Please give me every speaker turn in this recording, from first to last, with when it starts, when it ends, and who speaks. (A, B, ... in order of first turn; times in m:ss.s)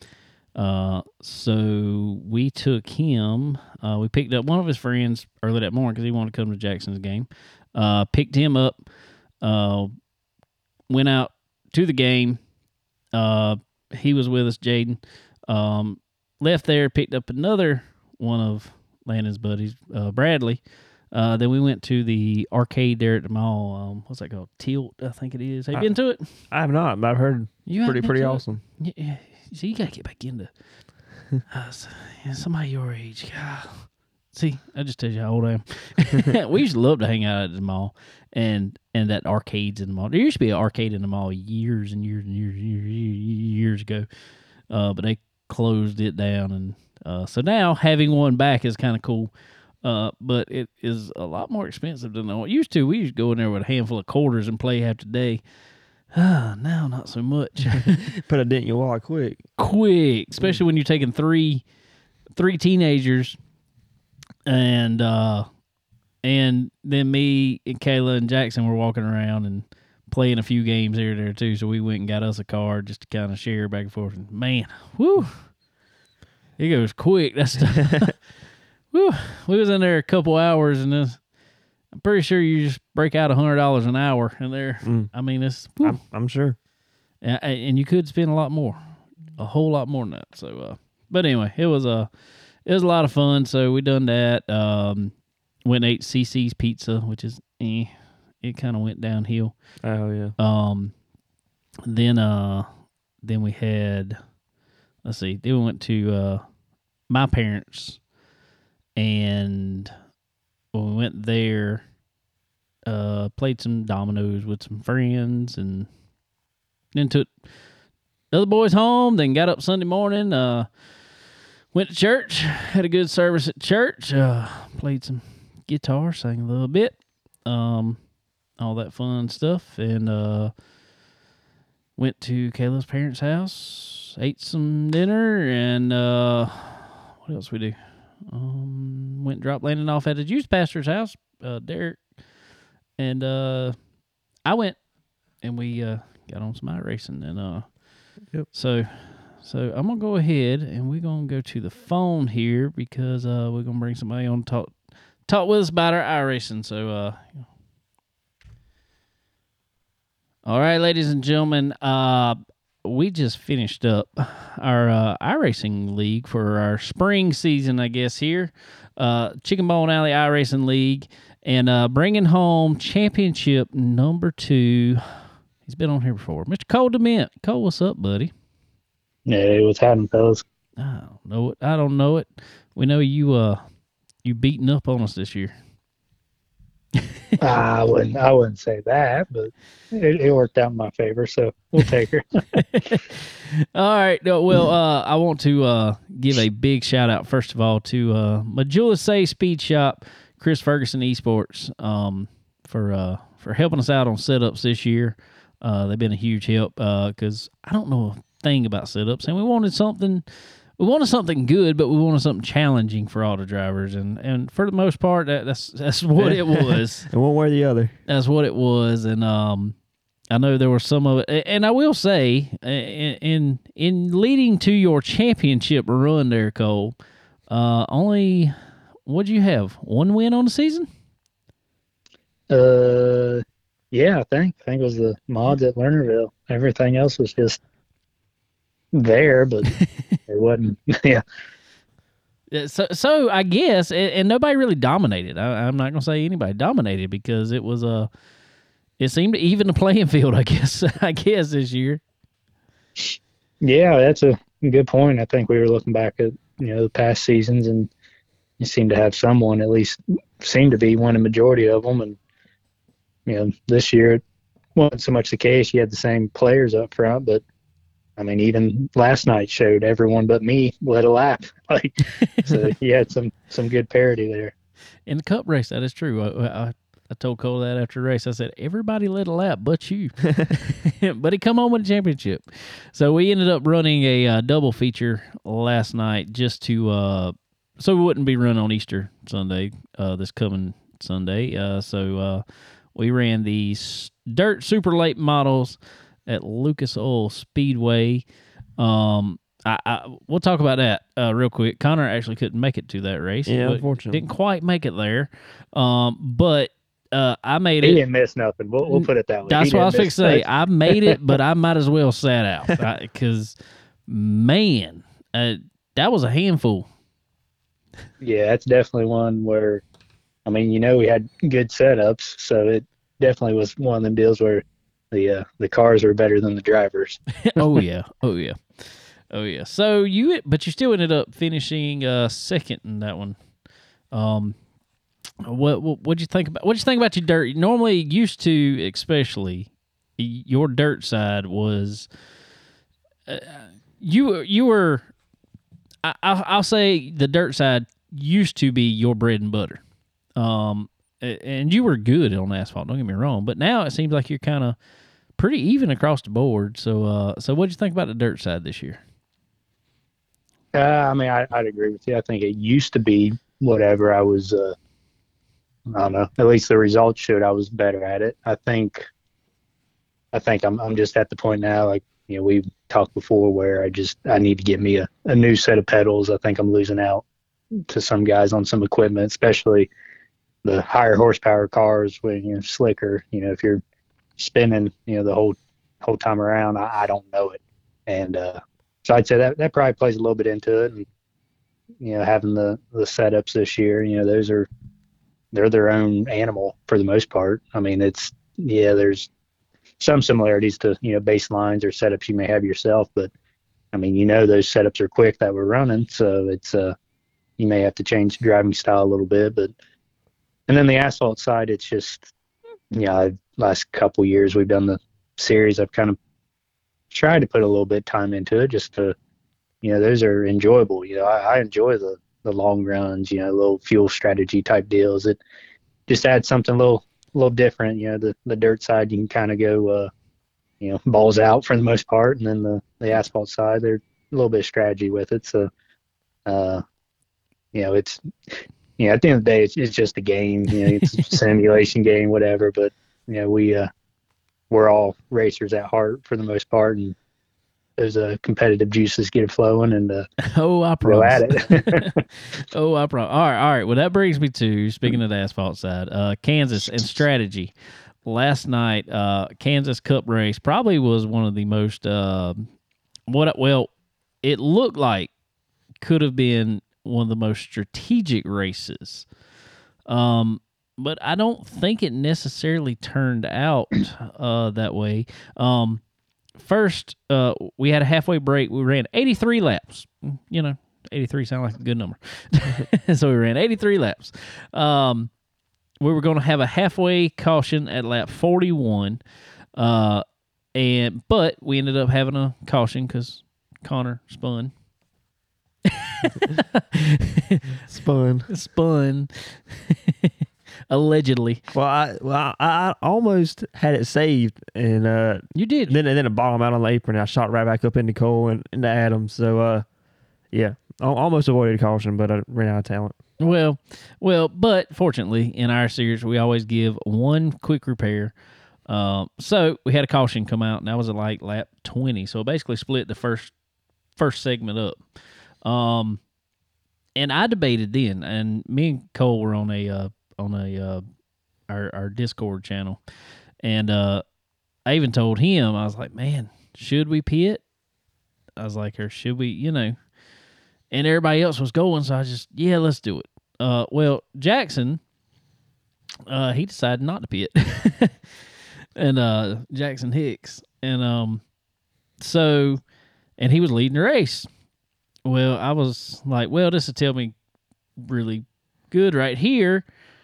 0:00.5-0:08.8 A
0:09.4-0:09.9 A
0:10.9-0:12.4 A
0:13.1-0:20.6 A
0:21.1-0:26.4 A
0:26.5-0:28.6 B
0:27.6-0:30.5 A
0:31.5-0:44.1 A
0:44.7-0:49.3 A
0:49.8-0:55.4 A
0:56.1-0:58.1 A
0:57.8-0:59.4 B
0:59.6-1:01.6 A
1:02.4-1:03.4 A
1:04.4-1:05.4 A
1:06.2-1:15.5 A
1:16.6-1:18.2 A
1:18.9-1:21.2 A
1:21.9-1:26.0 A
1:24.8-1:25.1 B
1:25.8-1:26.6 B
1:27.2-1:32.1 A
1:32.6-1:35.1 A
1:35.6-1:39.5 A
1:39.8-1:40.3 B
1:40.4-1:40.9 A
1:41.8-1:42.7 A
1:43.2-1:44.2 A
1:45.0-1:46.4 A
1:47.1-1:48.0 A
1:49.0-1:49.9 A
1:50.7-1:51.8 A
1:52.9-1:55.9 A
1:56.9-1:57.3 A
1:58.3-2:00.7 A
2:01.7-2:08.0 A
2:08.6-2:10.5 A
2:12.0-2:22.0 A
2:23.0-2:23.8 A
2:24.4-2:24.8 A
2:25.4-2:27.7 A
2:28.5-2:34.7 A
2:35.3-2:37.4 A
2:40.4-2:55.0 A
2:55.6-2:58.3 A
2:59.2-3:00.4 C
3:00.8-3:03.6 A
3:04.2-3:05.5 A
3:07.4-3:12.2 C
3:12.5-3:37.1 A
3:36.2-3:37.9 B
3:38.1-3:39.7 A
3:40.3-3:46.9 A
3:47.5-3:48.5 A
3:49.0-3:50.9 A
3:52.5-3:57.6 C
3:58.9-3:59.7 C
3:59.7-4:00.2 A
4:00.3-4:01.2 C
4:02.5-4:08.1 A
4:09.0-4:12.0 A
4:13.0-4:17.9 C
4:18.6-4:22.2 C
4:23.2-4:24.2 C
4:24.8-4:27.4 C
4:28.2-4:34.5 C
4:32.2-4:32.5 A
4:35.1-4:52.4 A
4:52.9-4:58.2 A
4:58.8-5:08.0 A
5:03.5-5:04.2 B
5:07.8-5:11.2 C
5:08.9-5:13.6 A
5:14.1-5:16.9 A
5:18.2-5:19.8 C
5:20.4-5:27.8 C
5:27.5-5:33.4 A
5:34.1-5:34.6 A
5:35.4-5:42.1 A
5:43.3-5:45.0 A
5:46.0-5:49.8 A
5:50.4-5:54.8 A
5:55.4-5:59.0 A
6:00.7-6:04.8 C
6:05.9-6:09.0 C
6:10.3-6:17.2 C
6:17.9-6:19.9 C
6:20.6-6:23.8 C
6:24.4-6:31.0 C
6:32.0-6:34.7 C
6:35.5-6:39.3 C
6:40.0-6:43.3 C
6:43.9-6:46.9 C
6:47.6-6:49.7 C
6:50.7-6:52.3 C
6:52.9-6:56.2 C
6:57.1-6:59.1 C
6:59.8-7:05.4 C
7:06.1-7:10.1 C
7:10.8-7:15.7 C
7:16.4-7:16.8 C
7:17.7-7:18.2 C
7:19.0-7:23.9 C
7:20.8-7:21.1 A
7:24.7-7:27.1 C
7:28.0-7:30.2 C
7:30.4-7:37.7 A
7:31.0-7:32.1 C
7:38.2-7:42.6 A
7:43.3-7:43.9 A
7:44.4-7:45.3 A
7:46.0-7:49.2 A
7:50.1-7:56.0 A
7:56.6-8:05.3 A
8:06.0-8:09.2 A
8:09.8-8:14.7 A
8:15.9-8:17.7 A
8:17.9-8:18.5 B
8:18.5-8:20.3 A
8:20.9-8:21.6 A
8:21.7-8:29.8 B
8:25.5-8:26.0 A
8:30.5-8:33.1 B
8:33.4-8:38.3 A
8:38.9-8:43.5 A
8:44.2-8:45.0 A
8:45.6-8:46.2 A
8:47.2-8:51.0 A
8:51.7-8:53.0 A
8:53.6-8:54.2 A
8:54.8-8:57.6 A
8:58.6-9:00.0 A
9:00.9-9:05.0 A
9:06.3-9:08.2 A
9:09.0-9:11.4 A
9:12.2-9:12.8 A
9:13.4-9:14.5 A
9:15.2-9:17.3 A
9:18.0-9:19.8 A